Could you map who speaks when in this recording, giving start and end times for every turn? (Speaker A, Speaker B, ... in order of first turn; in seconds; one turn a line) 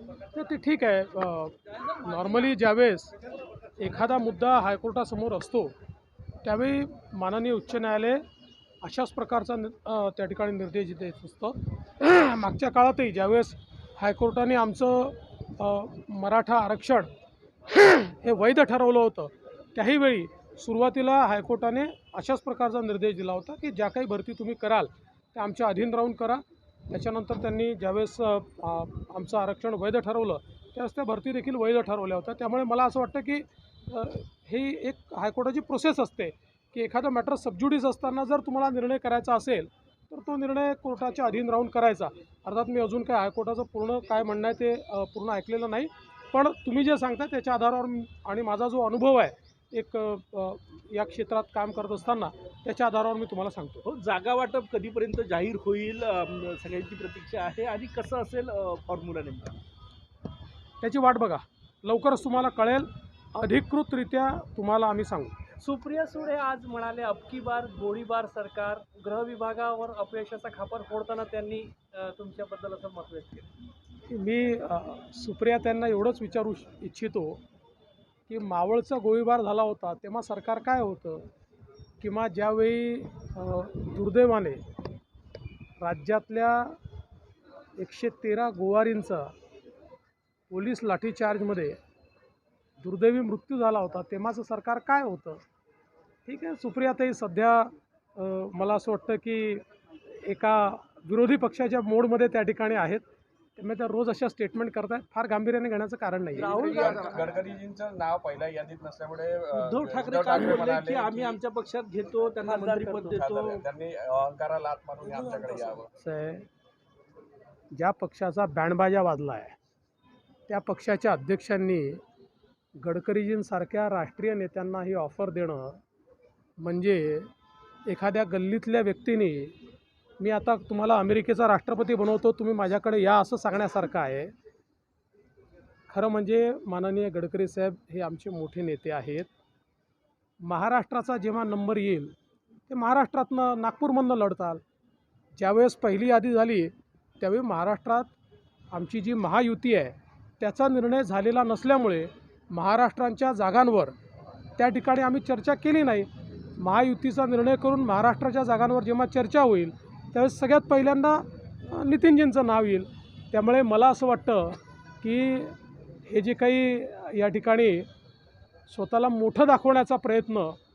Speaker A: 0.3-3.1
Speaker A: 3.8-5.7
Speaker A: 6.4-8.2
Speaker A: 8.8-17.1
Speaker A: 17.7-53.8
Speaker B: 53.9-59.5
Speaker A: 60.8-65.5
Speaker C: 65.6-73.5
Speaker A: 74.1-77.4
Speaker A: 78.3-81.3
Speaker A: 82.0-84.6
Speaker A: 85.8-86.8
Speaker A: 87.8-89.3
Speaker A: 90.5-91.8
Speaker A: 92.8-95.4
Speaker A: 96.3-99.6
Speaker A: 100.2-103.0
Speaker A: 103.6-106.9
Speaker C: 106.4-107.5
Speaker B: 106.4-107.4
Speaker D: 106.6-111.4
Speaker B: 109.6-113.7
Speaker C: 112.4-113.2
Speaker D: 113.1-115.9
Speaker C: 115.1-115.8
Speaker A: 116.0-116.5
Speaker A: 117.7-119.6
Speaker A: 120.5-122.0
Speaker A: 122.8-125.8
Speaker A: 126.6-127.3
Speaker A: 127.9-129.6
Speaker A: 130.2-134.3
Speaker A: 135.9-139.3
Speaker A: 140.4-142.1
Speaker A: 142.7-144.6
Speaker A: 145.3-148.1
Speaker A: 148.7-153.9
Speaker A: 154.6-167.9
Speaker A: 168.7-170.6